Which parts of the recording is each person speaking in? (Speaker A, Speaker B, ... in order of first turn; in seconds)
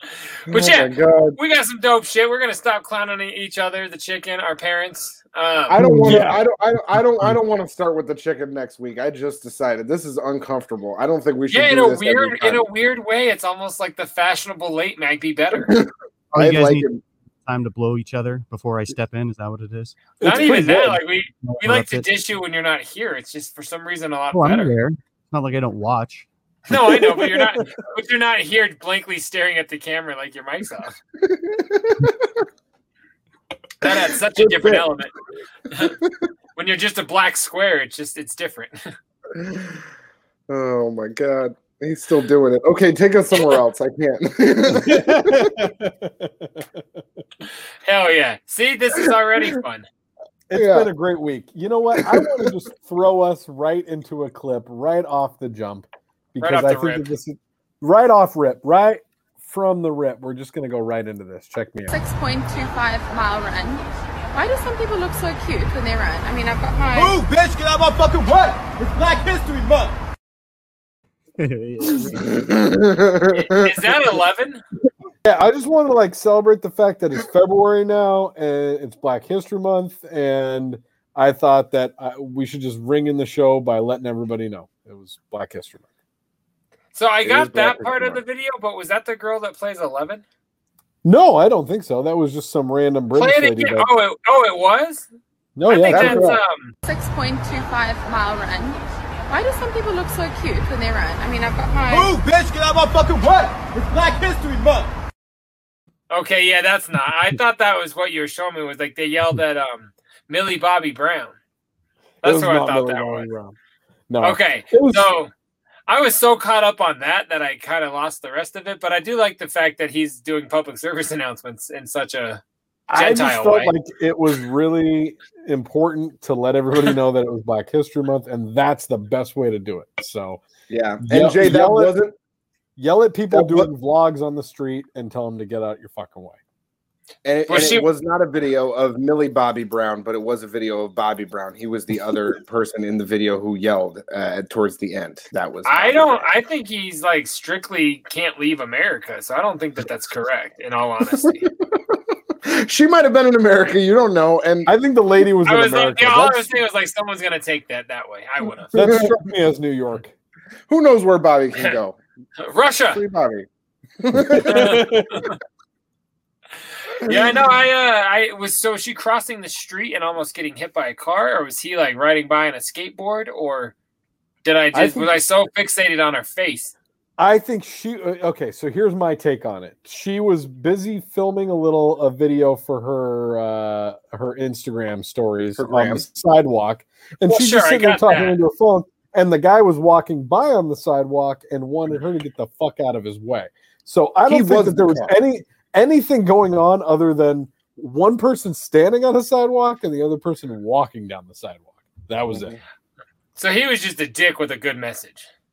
Speaker A: 0.5-1.4, 5.7-12.7, 15.5-17.0, 31.2-32.2, 33.9-34.9, 39.3-39.8, 40.5-45.5, 50.5-50.9, 52.0-52.4, 72.3-74.0, 87.2-88.2, 95.9-96.4, 130.7-132.1, 133.3-133.7, 137.2-146.3, 151.1-151.8, 152.4-154.7, 158.8-159.1, 160.7-162.0, 162.9-163.5, 164.0-164.8, 185.6-186.0, 194.3-195.2, 202.3-202.6
Speaker B: 0.5-5.8, 11.5-15.8, 20.2-24.8, 26.7-31.0, 33.8-35.1, 36.6-38.9, 47.9-49.9, 56.4-57.1, 73.3-74.6, 87.0-90.2, 93.2-95.1, 95.7-96.8, 106.1-111.4, 112.2-113.3, 114.2-115.3, 115.9-122.4, 122.9-123.7, 137.5-137.8, 145.7-151.5, 155.5-158.7, 162.4-163.0, 164.5-165.3, 167.0-173.7, 174.4-176.7, 187.3-188.4, 203.4-205.3
Speaker C: 5.8-6.4, 20.2-21.0, 27.1-27.6, 44.7-47.0, 50.5-62.0, 75.2-85.8, 91.0-93.9, 95.6-96.4, 112.2-113.6, 114.1-115.1, 122.9-130.4, 131.1-131.9, 132.8-136.4, 154.7-156.6, 158.7-160.1, 164.1-165.2, 174.7-175.1, 177.2-202.5
Speaker D: 16.3-16.9, 17.5-20.0, 21.4-22.1, 24.3-26.3, 71.4-72.5
Speaker E: 61.9-67.2, 96.8-102.2
Speaker F: 66.9-70.0, 101.9-104.9